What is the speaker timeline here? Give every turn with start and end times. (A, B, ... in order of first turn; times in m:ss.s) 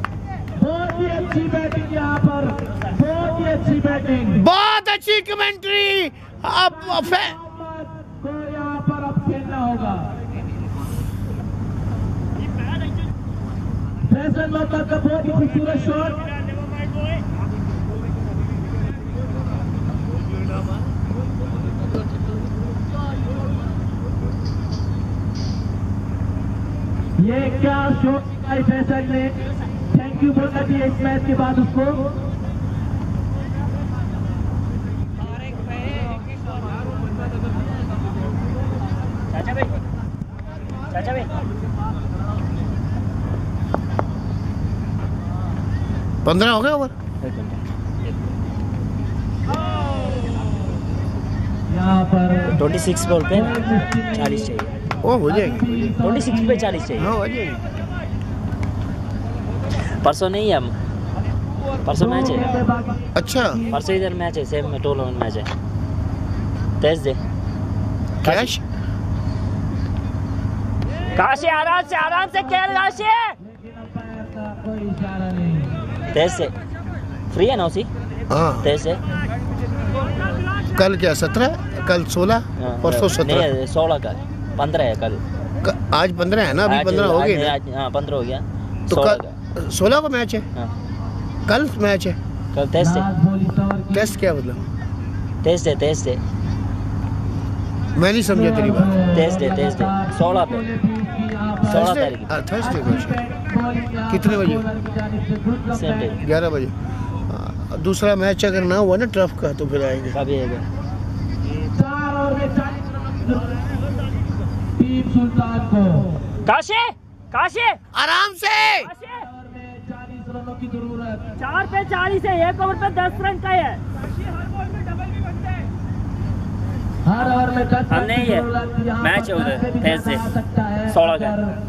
0:00.6-0:04.4 A
0:04.3-0:07.4 B
0:07.4-0:10.1 A
0:14.1-0:16.4 A
0:27.2-0:32.1 A
0:39.3-0:39.7 C
0:40.9-0:41.3 C
0:46.2-0:46.9 B
0:47.2-0:47.6 C
0:51.7-0:52.4 A
0:52.4-0:54.7 C
0:53.5-0:54.1 A
0:55.0-0:55.9 B
0:55.4-0:56.6 A
0:55.9-0:57.1 C
0:57.0-0:57.6 B
1:00.0-1:00.8 C
1:01.8-1:02.6 C
1:02.0-1:03.1 A
1:03.1-1:03.7 B
1:03.7-1:05.5 C
1:06.8-1:07.2 C
1:08.2-1:08.5 C
1:08.2-1:08.6 B
1:11.1-1:13.4 C
1:13.4-1:15.8 A
1:16.1-1:16.5 C
1:17.3-1:17.9 C
1:18.3-1:18.7 B
1:18.6-1:19.0 C
1:20.7-1:23.5 B
1:22.6-1:25.2 C
1:25.6-1:27.6 B
1:26.7-1:29.4 C
1:28.9-1:30.5 B
1:31.5-1:32.2 B
1:32.5-1:33.1 C
1:33.0-1:34.1 A
1:33.9-1:34.6 B
1:35.4-1:36.2 C
1:38.0-1:39.1 B
1:38.4-1:41.7 A
1:39.1-1:40.6 C
1:41.7-1:42.3 C
1:41.7-1:43.2 B
1:42.7-1:46.0 A
1:44.1-1:44.7 B
1:45.7-1:46.2 C
1:46.2-1:46.8 B
1:47.3-1:50.2 B
1:50.1-1:50.6 C
1:51.7-1:53.7 A
1:54.8-1:56.1 A
1:56.5-1:57.8 C
1:57.9-1:58.9 B
1:58.8-1:59.3 C
1:59.3-2:01.3 A
2:01.4-2:03.8 C
2:07.1-2:11.5 A
2:07.9-2:10.4 C
2:10.9-2:11.4 C